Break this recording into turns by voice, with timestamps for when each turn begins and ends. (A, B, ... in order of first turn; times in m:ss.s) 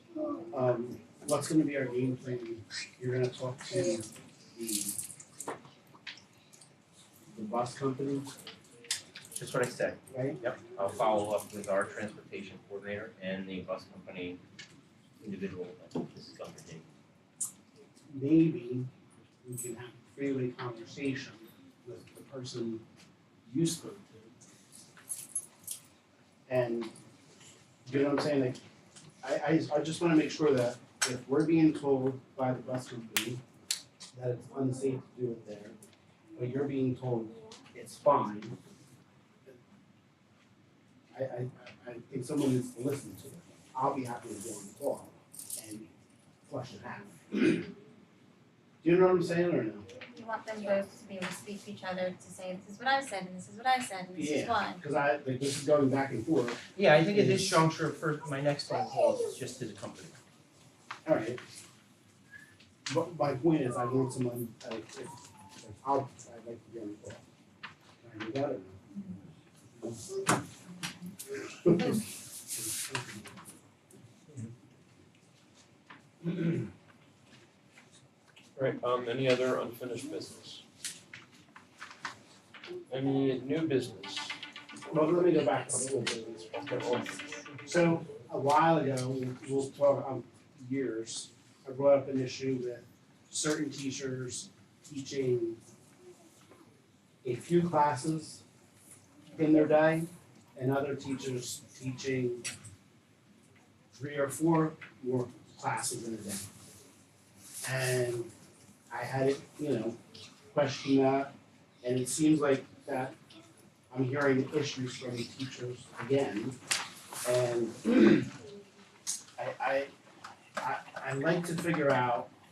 0:00.5-0:05.0 A
0:07.3-0:08.3 A
0:09.4-0:14.4 B
0:10.1-0:10.4 A
0:15.2-0:16.8 B
0:18.1-0:18.9 A
0:19.4-0:22.8 A
0:23.4-0:24.3 A
0:26.5-0:26.9 A
0:27.9-0:28.6 A
0:29.2-0:33.4 A
0:34.1-0:35.8 A
0:36.4-0:38.6 A
0:41.1-0:45.9 A
0:46.5-0:47.7 A
0:48.8-0:49.9 A
0:50.1-0:54.8 C
0:54.2-0:57.6 A
0:56.8-1:00.2 B
1:01.0-1:01.4 A
1:02.9-1:07.2 A
1:08.0-1:08.8 A
1:09.8-1:10.3 A
1:11.3-1:13.4 A
1:16.2-1:16.7 A
1:18.6-1:20.6 D
1:22.9-1:24.4 D
1:24.9-1:27.0 A
1:26.6-1:27.4 D
1:27.6-1:35.6 A
1:37.2-1:38.4 A
1:39.3-1:42.5 A
1:44.0-1:46.5 A
1:47.6-1:48.3 A
1:48.9-1:50.0 A
1:50.5-1:53.2 A
1:53.9-1:56.6 A
1:57.2-1:58.3 A
1:59.4-1:59.9 A
2:00.6-2:02.3 A